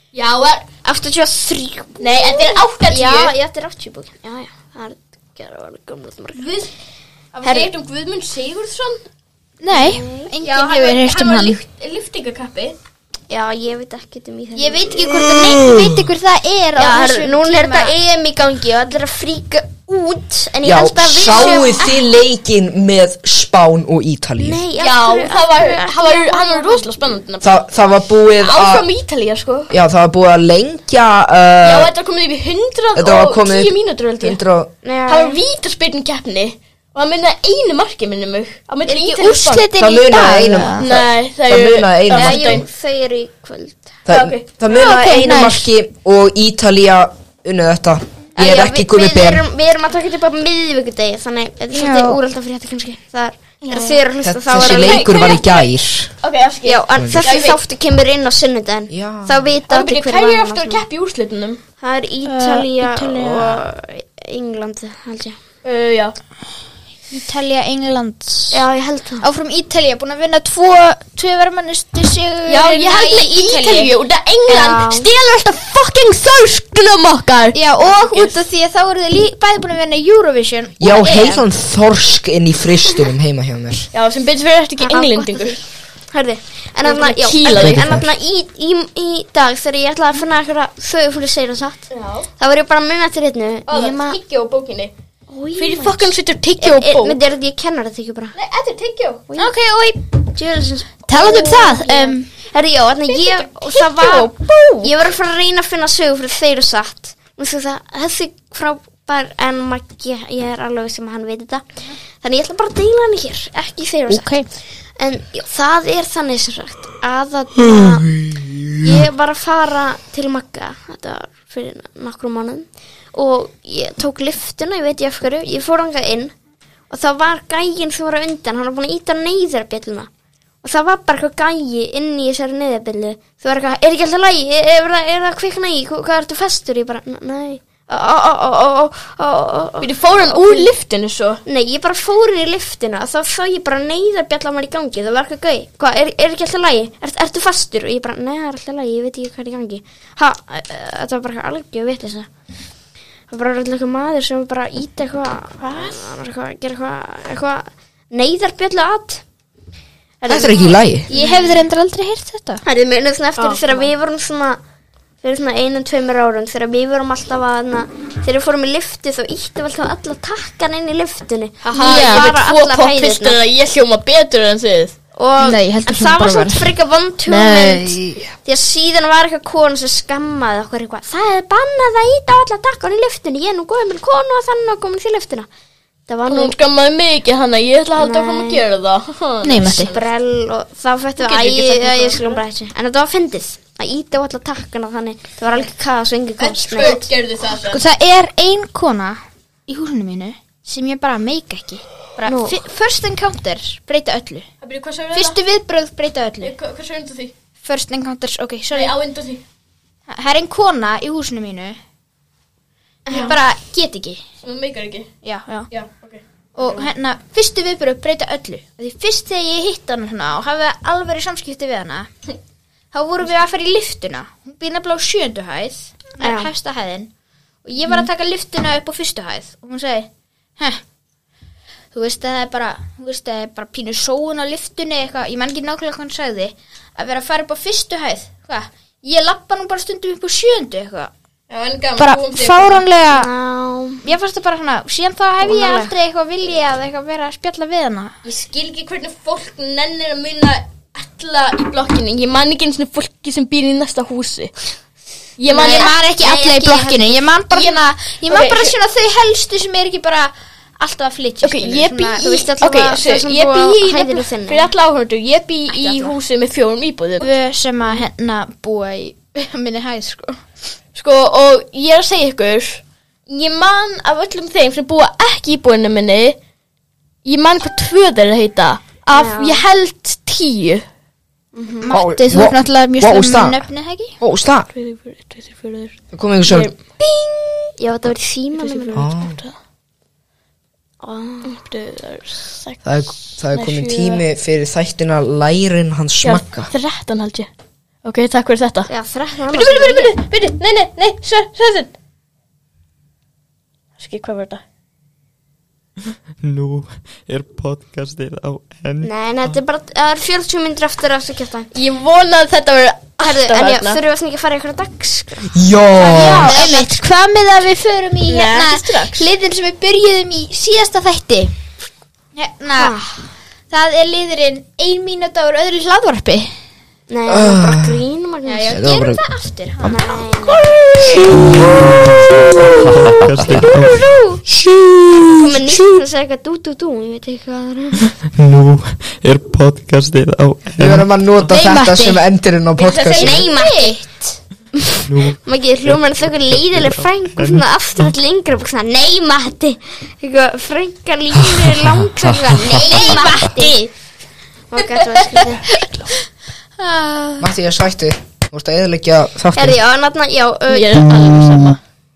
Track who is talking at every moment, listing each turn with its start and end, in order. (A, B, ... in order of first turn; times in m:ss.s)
0:00.1-0:00.7 A
0:00.8-0:06.4 B
0:02.0-0:03.3 A
0:06.3-0:06.7 A
0:07.3-0:09.0 A
0:07.4-0:07.7 B
0:09.6-0:11.6 C
0:09.7-0:10.3 B
0:10.4-0:12.8 A
0:13.3-0:15.0 B
0:14.6-0:17.9 C
0:15.4-0:15.8 D
0:16.8-0:22.0 B
0:20.6-0:24.6 D
0:21.3-0:21.8 A
0:24.4-0:26.8 B
0:24.8-0:27.6 A
0:27.4-0:28.9 D
0:28.4-0:29.7 A
0:29.7-0:31.9 D
0:31.6-0:34.4 A
0:33.0-0:34.7 D
0:34.8-0:35.4 B
0:35.1-0:39.7 A
0:38.9-0:40.8 C
0:39.8-0:42.6 D
0:40.8-0:42.6 A
0:42.1-0:44.0 B
0:44.0-0:49.4 D
0:44.1-0:44.6 A
0:44.7-0:45.7 C
0:48.4-0:55.4 B
0:51.7-0:52.2 C
0:53.6-0:54.0 A
0:54.2-0:56.1 D
0:54.5-0:55.7 A
0:56.2-0:57.6 A
0:56.6-1:00.8 B
0:56.9-0:57.4 D
0:58.9-0:59.5 D
0:59.7-1:01.6 A
1:01.8-1:05.4 B
1:02.2-1:03.6 C
1:05.6-1:06.1 A
1:07.1-1:08.6 C
1:08.5-1:09.2 B
1:09.2-1:13.9 C
1:12.5-1:18.4 A
1:14.5-1:15.1 B
1:17.5-1:21.4 C
1:20.8-1:23.9 D
1:23.9-1:25.6 A
1:24.8-1:25.6 B
1:26.1-1:34.2 B
1:26.8-1:28.0 A
1:27.5-1:28.0 D
1:31.9-1:32.3 A
1:33.7-1:34.9 A
1:35.3-1:38.3 B
1:35.6-1:37.2 A
1:38.3-1:39.3 A
1:39.4-1:40.0 C
1:40.3-1:51.6 B
1:41.1-1:42.3 C
1:43.1-1:44.9 A
1:52.2-1:54.4 B
1:54.1-1:54.5 C
1:55.0-1:58.1 B
1:57.6-1:59.0 D
1:58.8-2:06.3 B
2:06.9-2:10.1 B
2:10.6-2:20.7 B
2:19.8-2:21.4 A
2:21.4-2:32.3 B
2:33.3-2:39.2 B
2:35.6-2:36.0 A
2:40.2-2:41.2 B
2:40.3-2:41.1 D
2:41.1-2:42.6 C
2:41.2-2:41.5 A
2:42.6-2:44.6 B
2:43.4-2:43.9 A
2:45.2-2:53.4 B
2:51.6-2:54.9 A
2:51.7-2:52.3 C
2:55.2-3:05.5 B
2:55.4-2:56.7 C
2:57.3-2:57.6 C
2:57.3-2:57.9 A
3:06.1-3:06.5 B
3:06.3-3:10.1 A
3:08.0-3:08.6 B
3:09.4-3:09.9 C
3:09.6-3:17.0 B
3:11.2-3:12.4 A
3:16.4-3:17.0 C
3:16.4-3:17.8 A
3:17.6-3:24.5 C
3:22.2-3:22.6 B
3:24.6-3:25.4 A
3:25.1-3:26.5 C
3:26.4-3:27.3 A
3:27.6-3:28.9 C
3:28.7-3:29.4 A
3:30.1-3:31.8 C
3:33.1-3:33.3 B
3:33.1-3:34.2 C
3:34.4-3:35.1 A
3:35.2-3:35.7 C
3:35.7-3:36.8 A
3:36.6-3:42.1 C
3:42.9-3:47.1 C
3:46.2-3:46.5 B
3:47.6-3:50.8 C
3:51.9-4:01.1 C
4:01.5-4:02.8 A
4:02.0-4:03.3 C
4:03.1-4:04.0 B
4:04.0-4:08.1 C
4:05.4-4:05.9 B
4:08.2-4:14.5 A
4:15.4-4:15.9 A
4:15.5-4:17.2 B
4:15.5-4:22.5 C
4:17.5-4:18.7 A
4:21.4-4:27.3 A
4:22.2-4:24.7 B
4:25.8-4:26.1 C
4:27.2-4:30.4 C
4:30.9-4:36.4 A
4:37.2-4:40.8 A
4:39.1-4:39.6 B
4:41.5-4:41.9 B
4:41.8-4:44.2 C
4:41.9-4:43.6 D
4:44.2-4:44.7 D
4:44.7-4:45.9 A
4:46.1-4:46.7 D
4:46.4-4:47.7 A
4:47.8-4:49.1 B
4:48.5-4:49.5 A
4:48.9-4:49.4 D
4:51.0-4:51.5 B
4:51.4-4:52.8 A
4:52.8-4:56.7 D
4:53.5-4:54.2 A
4:56.2-4:57.5 A
4:58.0-4:58.9 A
4:58.9-5:00.1 B
4:59.5-5:01.9 A
5:04.0-5:04.6 A
5:06.4-5:09.5 E
5:09.0-5:11.7 B
5:11.7-5:14.0 A
5:13.2-5:17.0 B
5:15.5-5:16.6 D
5:16.1-5:21.5 C
5:18.3-5:19.3 A
5:22.4-5:23.0 C
5:22.8-5:23.1 B
5:23.7-5:26.5 C
5:27.1-5:28.8 B
5:27.3-5:28.0 D
5:28.4-5:31.2 C
5:28.7-5:29.2 D
5:29.8-5:30.7 B
5:31.7-5:32.2 E
5:32.8-5:34.1 E
5:33.6-5:34.4 C
5:35.1-5:35.8 D
5:35.3-5:38.0 B
5:38.4-5:41.5 E
5:40.8-5:43.5 D
5:41.5-5:42.2 C
5:42.8-5:43.5 A
5:43.2-5:44.4 B
5:43.5-5:44.0 C
5:45.0-5:48.1 E
5:45.3-5:53.9 B
5:52.7-5:53.8 C
5:54.7-5:55.8 B
5:56.8-5:57.5 C
5:57.4-5:59.8 D
5:59.5-6:01.0 B
6:00.7-6:01.8 A